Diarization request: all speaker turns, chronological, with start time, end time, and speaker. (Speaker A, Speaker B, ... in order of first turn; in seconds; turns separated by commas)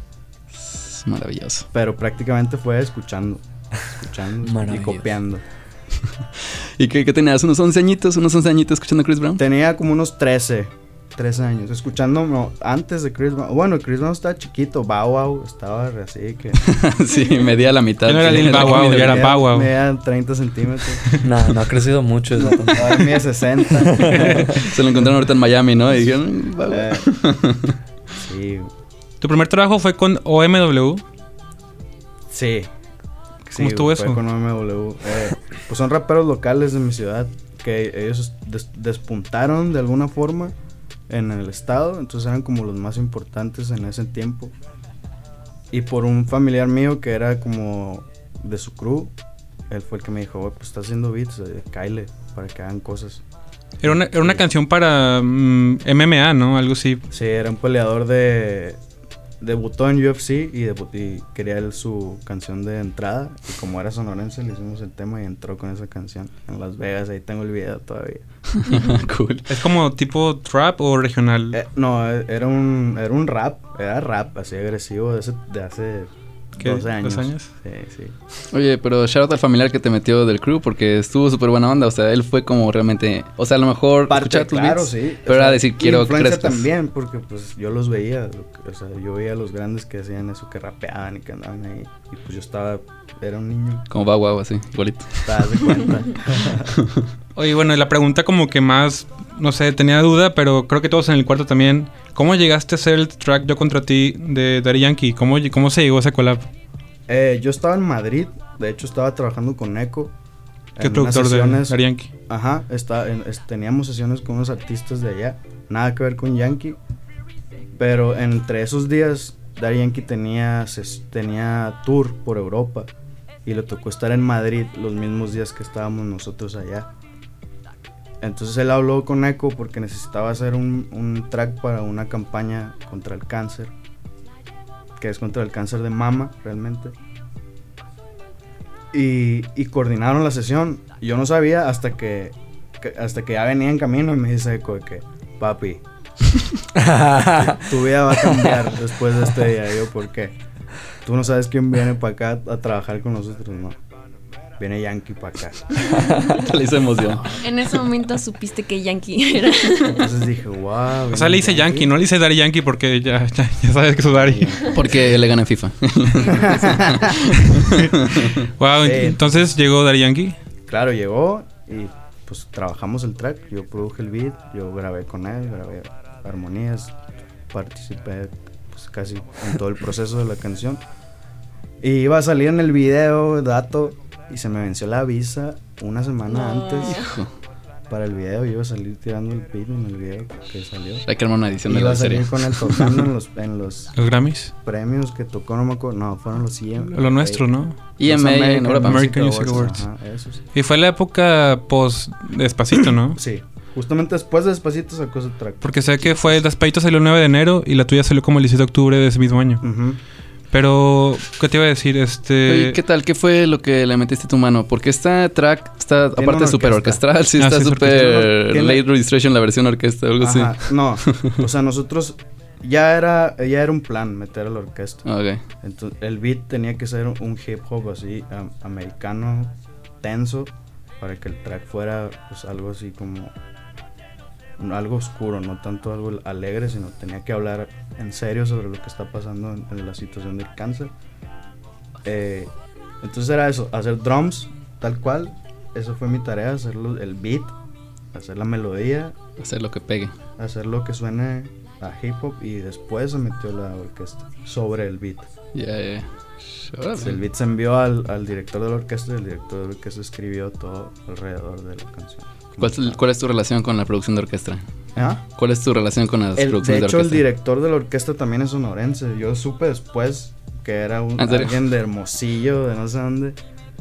Speaker A: 0.5-1.7, Speaker B: 1.7-5.4, Speaker C: 4.4-5.2, Speaker A: 6.8-9.4, Speaker B: 9.4-16.7, Speaker A: 16.6-19.3, Speaker D: 18.0-19.7, Speaker B: 18.2-21.1, Speaker C: 21.2-23.1, Speaker B: 22.4-24.4, Speaker C: 23.8-24.3, Speaker D: 24.1-24.6, Speaker A: 24.6-27.8, Speaker B: 26.7-27.1, Speaker B: 28.1-28.7, Speaker D: 29.2-31.0, Speaker B: 32.3-32.7, Speaker B: 33.4-40.5, Speaker D: 33.6-34.2, Speaker B: 41.1-44.5, Speaker B: 45.7-49.1, Speaker B: 49.7-53.2, Speaker D: 53.8-57.0, Speaker B: 53.8-54.4, Speaker B: 57.1-58.8, Speaker B: 59.4-68.2, Speaker A: 68.5-69.5, Speaker D: 69.5-71.6, Speaker B: 71.5-78.2, Speaker D: 76.6-77.5, Speaker A: 78.5-86.6, Speaker B: 84.1-93.9, Speaker A: 93.9-95.6, Speaker B: 95.2-96.7, Speaker D: 97.3-106.5, Speaker B: 107.1-110.1, Speaker B: 110.8-116.8, Speaker D: 110.8-112.1, Speaker B: 117.8-122.9, Speaker B: 123.4-126.9, Speaker B: 128.2-133.7, Speaker B: 135.0-136.9, Speaker B: 138.9-145.8, Speaker C: 146.8-147.7, Speaker B: 147.3-150.3, Speaker C: 148.3-148.6, Speaker B: 151.0-153.8, Speaker B: 154.6-155.8, Speaker A: 156.3-157.4, Speaker E: 157.3-160.1, Speaker B: 159.9-161.9, Speaker D: 161.1-164.7, Speaker B: 164.2-165.0, Speaker A: 164.7-168.4, Speaker E: 166.2-167.0, Speaker B: 166.3-167.1, Speaker D: 168.6-170.3, Speaker B: 168.8-169.3, Speaker B: 170.7-177.0, Speaker B: 177.5-180.8, Speaker B: 181.8-187.0, Speaker E: 186.3-187.0, Speaker A: 186.8-187.3, Speaker B: 187.9-191.0, Speaker A: 191.1-193.0, Speaker B: 191.6-193.9, Speaker D: 193.9-194.5, Speaker B: 194.6-197.4, Speaker D: 196.9-197.8, Speaker A: 198.0-199.1, Speaker B: 198.0-200.4, Speaker D: 198.8-199.8, Speaker D: 200.5-203.2, Speaker B: 203.2-206.4, Speaker D: 205.6-209.6, Speaker B: 209.6-210.0, Speaker D: 210.5-212.8, Speaker A: 212.5-221.3, Speaker B: 216.1-217.0, Speaker D: 217.4-218.3, Speaker B: 218.0-218.8, Speaker B: 220.2-225.1, Speaker A: 225.1-225.4, Speaker B: 225.6-233.3, Speaker B: 234.6-240.9, Speaker B: 242.0-247.6, Speaker B: 248.1-249.2, Speaker A: 249.4-250.1, Speaker B: 250.4-255.3, Speaker A: 255.5-257.2, Speaker B: 257.0-263.0, Speaker A: 262.6-264.6, Speaker B: 264.9-265.2, Speaker A: 265.4-267.2, Speaker B: 266.3-273.4, Speaker A: 271.2-271.6